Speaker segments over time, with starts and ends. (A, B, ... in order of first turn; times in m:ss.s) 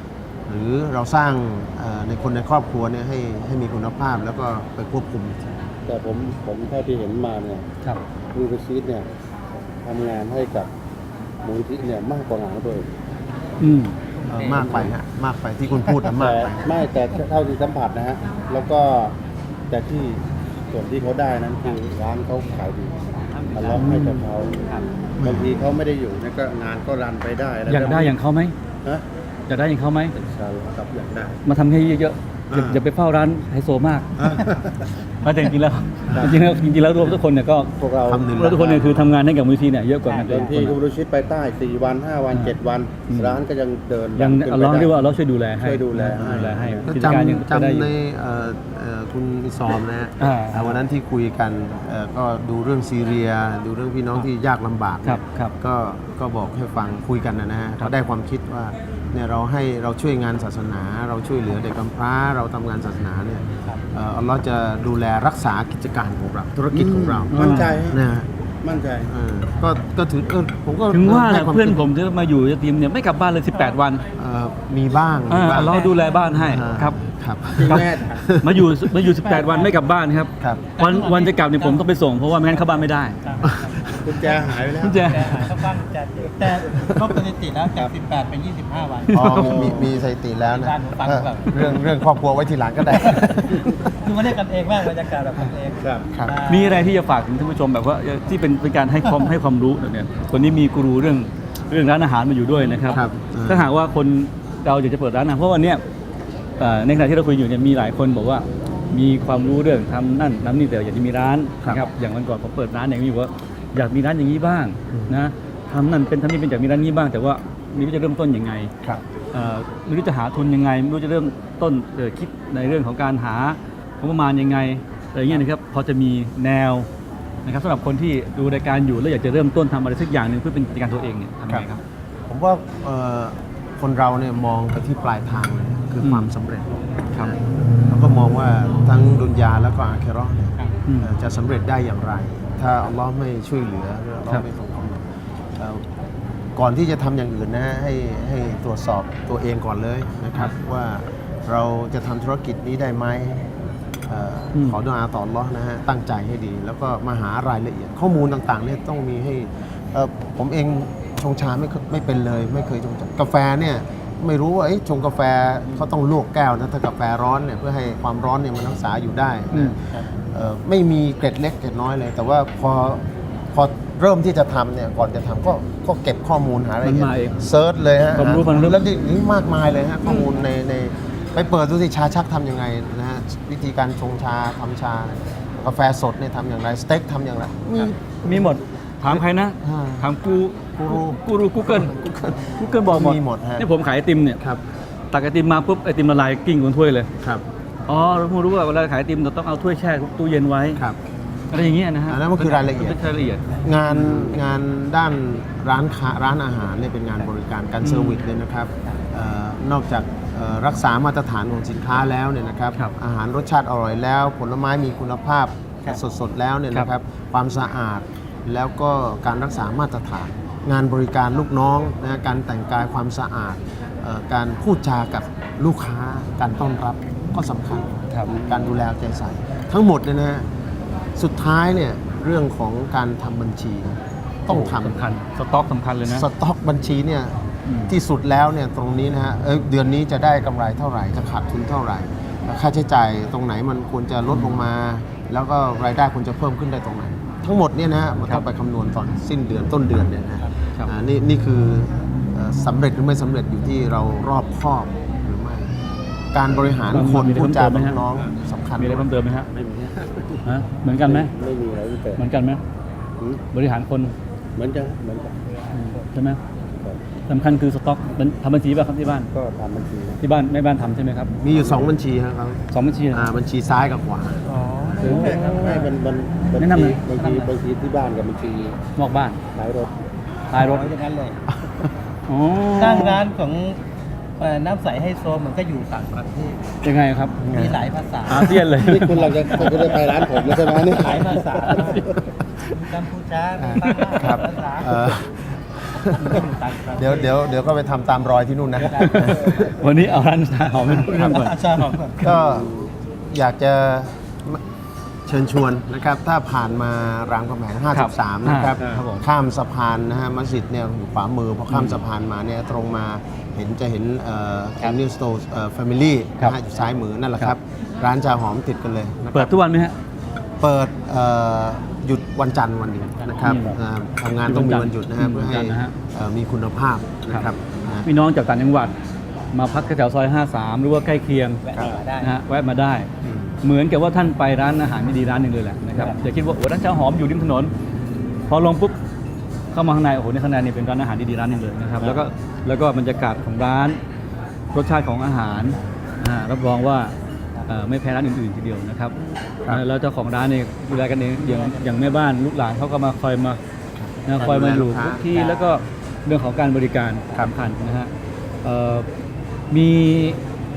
0:00.5-0:05.6 A
0:05.9-0:07.7 B
0:08.3-0:09.1 B
0:09.8-0:10.7 B
0:11.4-0:12.9 B
0:13.6-0:14.0 C
0:14.2-0:14.7 D
0:14.3-0:16.8 A
0:14.6-0:14.9 B
0:16.1-0:19.2 B
0:19.7-0:24.6 B
0:23.3-0:23.9 D
0:23.8-0:24.3 C
0:24.6-0:24.9 D
0:25.2-0:25.5 A
0:25.2-0:28.1 B
0:27.7-0:28.5 C
0:29.5-0:30.1 C
0:30.2-0:31.4 B
0:31.4-0:34.2 C
0:32.5-0:32.8 B
0:34.2-0:34.8 B
0:35.2-0:37.7 C
0:37.8-0:38.3 B
0:38.0-0:39.1 A
0:38.3-0:40.8 C
0:40.1-0:40.5 D
0:40.3-0:45.0 B
0:43.1-0:43.4 C
0:44.2-0:47.9 C
0:45.6-0:47.0 B
0:46.8-1:08.3 A
0:50.2-0:50.6 C
0:55.0-0:55.5 C
1:06.7-1:08.0 B
1:07.3-1:07.8 C
1:08.6-1:09.1 B
1:09.1-1:11.8 A
1:10.9-1:14.0 C
1:14.2-1:15.8 A
1:15.3-1:17.0 C
1:15.5-1:16.1 D
1:16.3-1:18.9 A
1:17.5-1:18.3 B
1:18.4-1:23.2 C
1:19.0-1:19.7 D
1:20.4-1:20.7 A
1:20.8-1:21.8 D
1:22.5-1:29.7 D
1:23.4-1:23.8 A
1:23.9-1:25.4 B
1:24.8-1:25.6 C
1:26.7-1:27.1 A
1:29.1-1:29.7 C
1:29.1-1:33.7 A
1:29.4-1:29.9 B
1:30.5-1:31.8 D
1:33.0-1:36.9 D
1:35.8-1:36.1 B
1:36.1-1:36.4 A
1:36.4-1:45.8 C
1:42.9-1:43.7 A
1:46.6-1:58.7 C
1:59.3-2:06.9 C
2:07.4-2:11.8 C
2:12.3-2:25.8 A
2:16.0-2:16.3 C
2:20.8-2:21.1 C
2:26.5-2:33.5 A
2:34.1-3:10.1 A
2:49.5-2:49.8 C
2:56.8-2:57.4 C
2:58.1-2:58.8 C
3:08.2-3:14.4 C
3:10.8-3:13.7 A
3:15.1-3:17.1 C
3:17.9-3:20.8 C
3:21.5-3:24.4 C
3:22.1-3:23.0 A
3:23.6-3:50.5 A
3:27.8-3:28.2 C
3:51.2-3:55.0 A
3:54.5-3:56.2 C
3:56.1-4:15.7 A
3:57.7-3:57.9 C
4:04.3-4:04.6 C
4:16.3-4:19.2 A
4:16.9-4:18.0 C
4:18.8-4:19.5 C
4:19.5-4:20.4 B
4:20.4-4:21.3 C
4:21.0-4:22.2 B
4:22.2-4:22.6 C
4:23.5-4:24.1 C
4:24.6-4:25.4 B
4:25.7-4:26.0 D
4:25.7-4:26.4 C
4:27.3-4:29.3 C
4:29.3-4:30.2 B
4:30.2-4:31.3 C
4:31.4-4:34.6 A
4:31.4-4:31.9 B
4:32.7-4:33.3 C
4:34.4-4:35.9 D
4:35.0-4:38.8 B
4:35.0-4:35.9 C
4:36.6-4:37.5 C
4:39.0-4:39.4 C
4:39.5-4:39.9 B
4:40.5-4:40.9 C
4:40.5-4:41.4 D
4:42.3-4:43.2 C
4:42.7-4:43.8 D
4:44.4-4:46.8 D
4:46.8-4:47.4 C
4:47.4-4:47.9 A
4:47.4-4:52.0 D
4:48.3-4:49.6 C
4:48.8-4:52.2 B
4:52.6-4:55.1 D
4:53.6-4:59.7 A
4:56.0-4:57.4 D
4:58.7-4:59.7 D
4:59.0-5:02.0 C
5:00.8-5:01.2 A
5:01.1-5:02.3 D
5:02.2-5:04.6 A
5:02.2-5:02.9 B
5:05.2-5:19.5 A
5:07.9-5:09.2 C
5:11.7-5:12.0 C
5:19.3-5:19.9 C
5:20.6-5:28.1 A
5:23.4-5:23.8 C
5:24.4-5:25.9 C
5:28.0-5:28.9 C
5:29.5-5:31.6 C
5:31.6-5:32.4 D
5:32.2-5:33.1 C
5:33.2-5:33.6 A
5:33.6-5:37.7 C
5:38.5-5:39.0 C
5:39.7-5:44.0 C
5:44.7-5:47.1 C
5:47.7-5:49.1 C
5:49.7-5:53.6 C
5:51.4-5:52.1 D
5:53.9-5:55.3 A
5:54.2-5:58.1 C
5:55.3-5:55.7 D
5:58.6-5:59.1 C
5:59.7-6:00.4 C